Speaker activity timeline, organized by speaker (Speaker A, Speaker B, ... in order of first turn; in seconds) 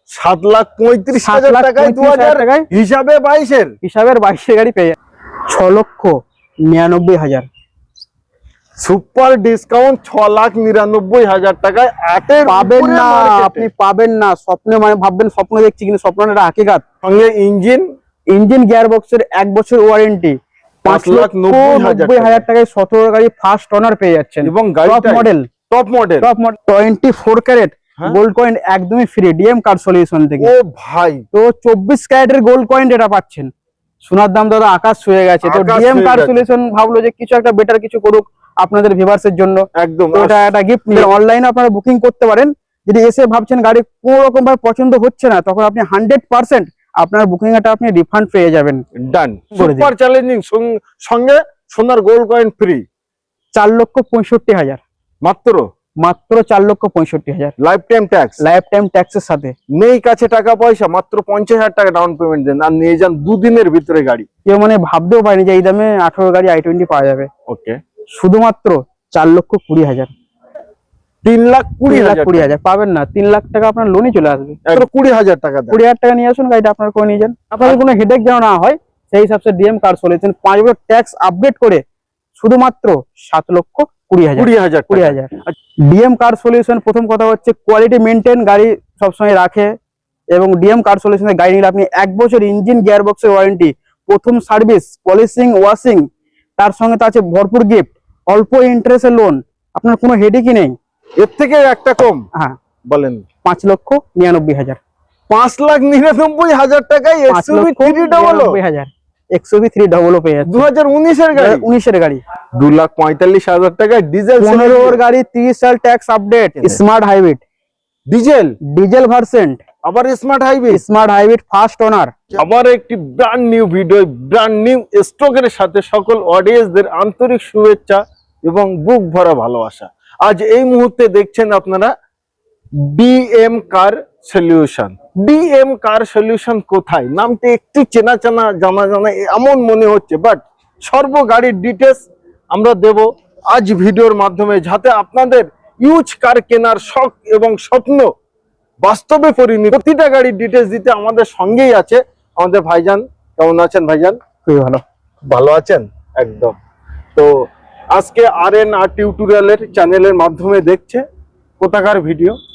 Speaker A: 0.1-3.8, 8.8-13.7, 17.0-17.9, 20.9-22.4, 24.4-26.3, 30.4-31.2, 35.4-36.4, 39.8-41.1, 49.0-52.9, 55.2-55.7, 57.6-58.4, 59.8-64.3, 67.5-67.8, 71.2-72.5, 74.7-75.8, 84.4-85.5, 101.2-102.2, 102.9-103.2, 105.3-108.6, 110.5-111.7, 112.6-115.0, 118.1-118.6, 119.8-120.8, 122.4-131.9, 132.8-148.1, 148.8-154.2, 155.3-156.6, 157.2-161.0, 161.6-162.4
Speaker B: 1.2-2.7, 3.8-5.0, 5.5-7.5, 12.5-16.8, 18.3-25.5, 26.2-30.5, 31.3-33.5, 34.0-48.8, 49.5-49.9, 53.5-54.8, 56.0-57.5, 58.4-59.5, 64.5-67.3, 68.2-70.1, 71.9-74.8, 75.7-81.8, 82.4-85.3, 85.9-89.7, 90.3-96.1, 96.6-100.8, 103.5-104.8, 107.3-110.7, 111.3-112.2, 114.4-117.4, 118.7-119.6, 120.7-122.4, 154.5-154.8